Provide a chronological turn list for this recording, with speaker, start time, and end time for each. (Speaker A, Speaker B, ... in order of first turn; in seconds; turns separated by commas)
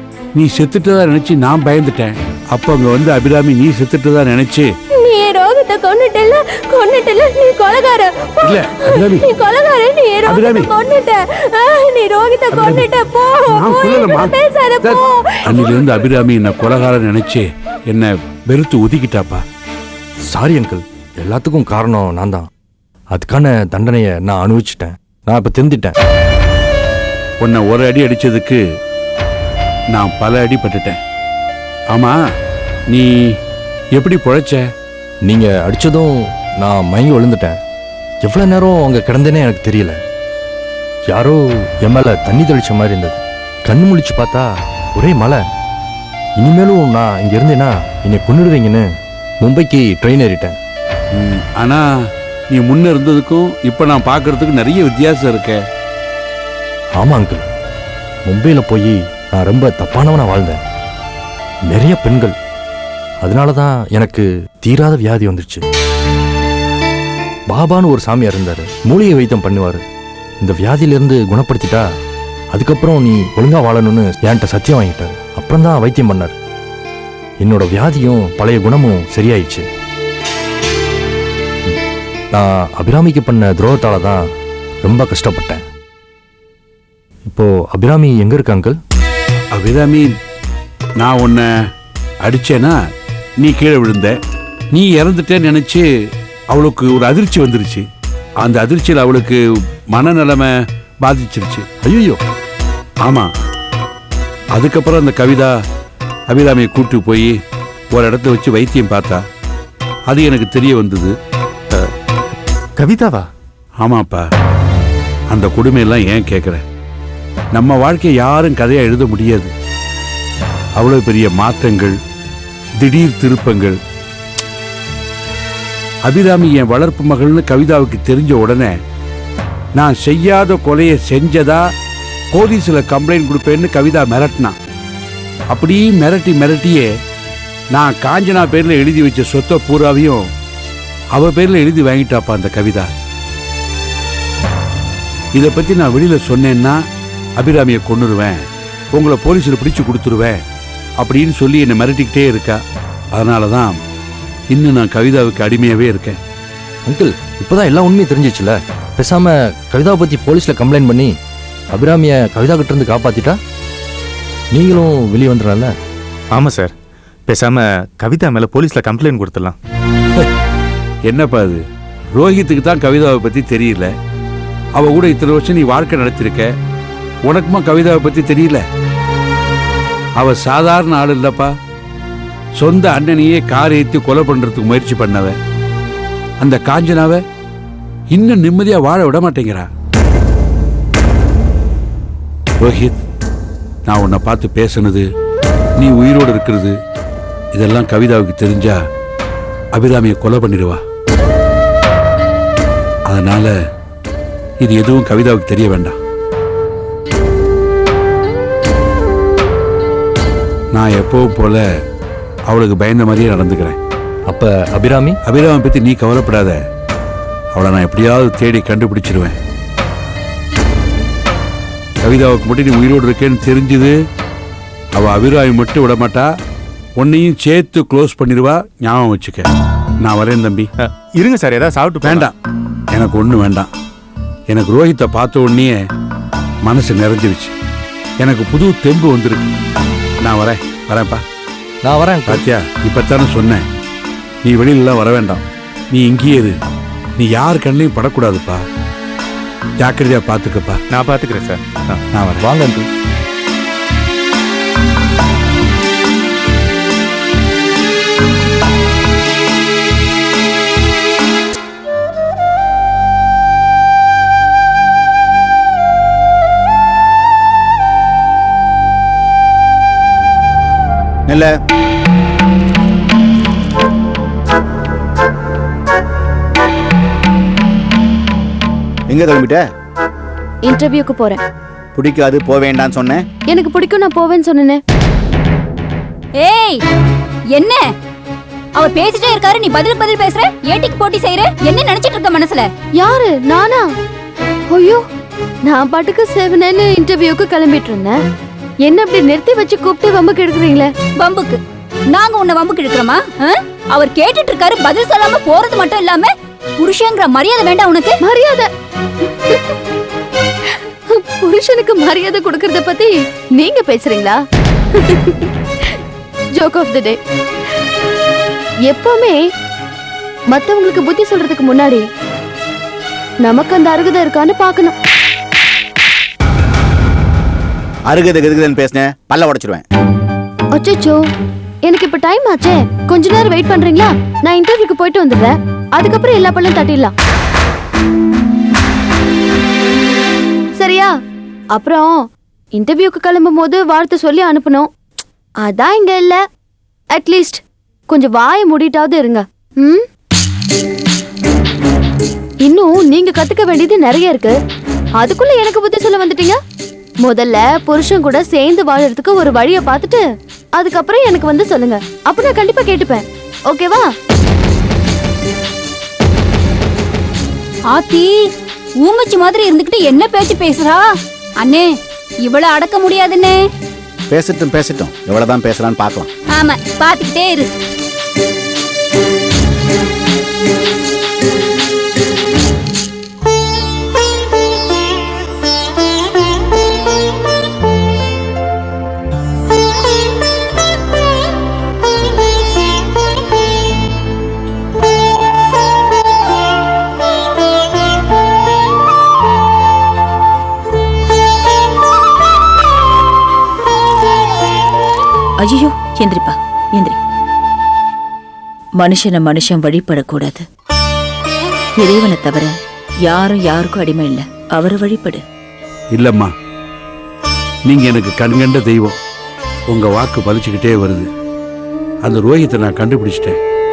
Speaker A: 0.3-4.7, Speaker B: 5.0-7.0, Speaker C: 5.0-8.2, Speaker B: 7.8-8.3, Speaker A: 8.4-9.3, Speaker C: 9.2-12.4, Speaker A: 10.3-10.7, Speaker A: 12.5-12.9, Speaker D: 12.7-14.3, Speaker C: 13.2-13.5, Speaker A: 13.5-19.4, Speaker E: 20.3-22.5, Speaker E: 23.1-25.9, Speaker A: 27.4-28.6, Speaker A: 29.9-31.0, Speaker A: 34.0-34.6, Speaker E: 35.3-37.6, Speaker E: 38.2-40.0, Speaker E: 41.1-45.4, Speaker E: 46.4-48.9, Speaker E: 49.4-50.6, Speaker A: 51.2-51.8, Speaker A: 52.5-55.6, Speaker E: 57.0-57.5, Speaker E: 58.3-60.6, Speaker E: 61.7-62.3, Speaker E: 63.2-65.7, Speaker E: 67.5-69.8, Speaker E: 70.4-71.9, Speaker E: 72.5-76.3, Speaker E: 77.4-79.7, Speaker E: 82.3-84.2, Speaker E: 84.8-85.6, Speaker E: 87.3-88.8, Speaker A: 89.5-90.1, Speaker A: 91.0-91.5, Speaker A: 92.2-92.8, Speaker A: 93.4-94.2, Speaker A: 94.7-95.8, Speaker A: 96.5-97.8, Speaker A: 98.4-99.4, Speaker A: 99.9-100.5, Speaker A: 101.0-101.7, Speaker E: 101.8-102.2, Speaker A: 104.5-105.5, Speaker A: 106.3-107.3, Speaker A: 107.9-109.2, Speaker A: 110.1-111.1, Speaker B: 112.8-113.3, Speaker A: 113.8-114.2, Speaker A: 115.3-116.6, Speaker A: 117.5-119.5, Speaker A: 120.8-122.0, Speaker A: 122.8-123.8, Speaker A: 126.1-128.8, Speaker A: 129.8-131.6, Speaker A: 132.3-134.6, Speaker A: 135.5-136.9, Speaker A: 137.7-140.3, Speaker A: 141.1-142.9, Speaker A: 145.3-146.8, Speaker A: 147.4-148.4, Speaker A: 148.9-150.4, Speaker A: 151.0-152.6, Speaker A: 153.1-153.8, Speaker A: 154.5-156.2, Speaker E: 156.9-161.1, Speaker E: 161.7-163.4, Speaker E: 164.5-165.7, Speaker B: 166.3-166.7, Speaker B: 167.3-169.6, Speaker A: 171.1-171.6, Speaker A: 172.2-173.9, Speaker A: 174.8-176.5, Speaker A: 177.3-178.6, Speaker A: 180.2-181.5, Speaker A: 182.6-185.4, Speaker A: 186.4-187.2, Speaker A: 188.1-189.7, Speaker A: 192.6-193.0, Speaker A: 193.9-195.1, Speaker A: 195.8-196.8, Speaker A: 197.5-198.8, Speaker A: 199.8-200.8, Speaker A: 203.1-203.5, Speaker A: 204.6-206.0, Speaker A: 210.7-211.6, Speaker A: 212.5-213.8, Speaker E: 214.3-215.2, Speaker A: 215.3-216.6, Speaker A: 217.5-219.3, Speaker A: 222.0-223.9, Speaker A: 225.0-226.3, Speaker A: 227.0-229.5, Speaker A: 230.0-230.7, Speaker B: 230.8-232.3, Speaker A: 232.0-232.3, Speaker A: 232.9-233.7, Speaker A: 234.5-235.8, Speaker A: 236.7-237.5, Speaker A: 238.2-239.6, Speaker A: 240.2-241.2, Speaker E: 241.8-242.4, Speaker A: 242.3-243.6, Speaker A: 244.4-245.4, Speaker A: 245.9-246.6, Speaker A: 247.2-248.6, Speaker A: 249.8-250.8, Speaker B: 250.9-252.0, Speaker A: 252.2-252.4, Speaker E: 252.4-252.9, Speaker F: 279.1-279.6, Speaker C: 280.6-281.4, Speaker F: 282.0-283.2, Speaker C: 283.5-284.8, Speaker D: 286.4-286.8, Speaker D: 287.5-287.9, Speaker D: 288.8-292.7, Speaker C: 293.0-293.9, Speaker C: 294.7-295.0, Speaker C: 295.6-298.2, Speaker C: 298.8-300.9, Speaker D: 301.2-301.6, Speaker D: 302.1-308.2, Speaker C: 308.2-308.7, Speaker C: 309.5-309.8, Speaker C: 310.7-314.4, Speaker C: 314.9-316.0, Speaker C: 316.6-317.2, Speaker C: 318.9-319.4, Speaker C: 320.5-322.1, Speaker C: 323.4-324.9, Speaker F: 328.1-329.7, Speaker C: 330.7-331.2, Speaker C: 331.8-337.1, Speaker C: 340.8-341.2, Speaker C: 341.7-344.9, Speaker C: 345.6-346.4, Speaker C: 347.1-350.1, Speaker C: 352.6-354.6, Speaker C: 355.2-356.6, Speaker C: 357.2-364.1, Speaker D: 367.9-368.3, Speaker D: 369.0-371.1, Speaker D: 371.6-371.9, Speaker D: 372.4-373.6, Speaker F: 374.3-376.2, Speaker D: 376.5-377.7, Speaker G: 405.6-407.2, Speaker G: 409.0-410.6, Speaker G: 412.0-412.7, Speaker G: 413.2-415.4, Speaker A: 416.1-416.5, Speaker A: 417.9-419.2, Speaker A: 419.9-421.3, Speaker A: 422.2-423.6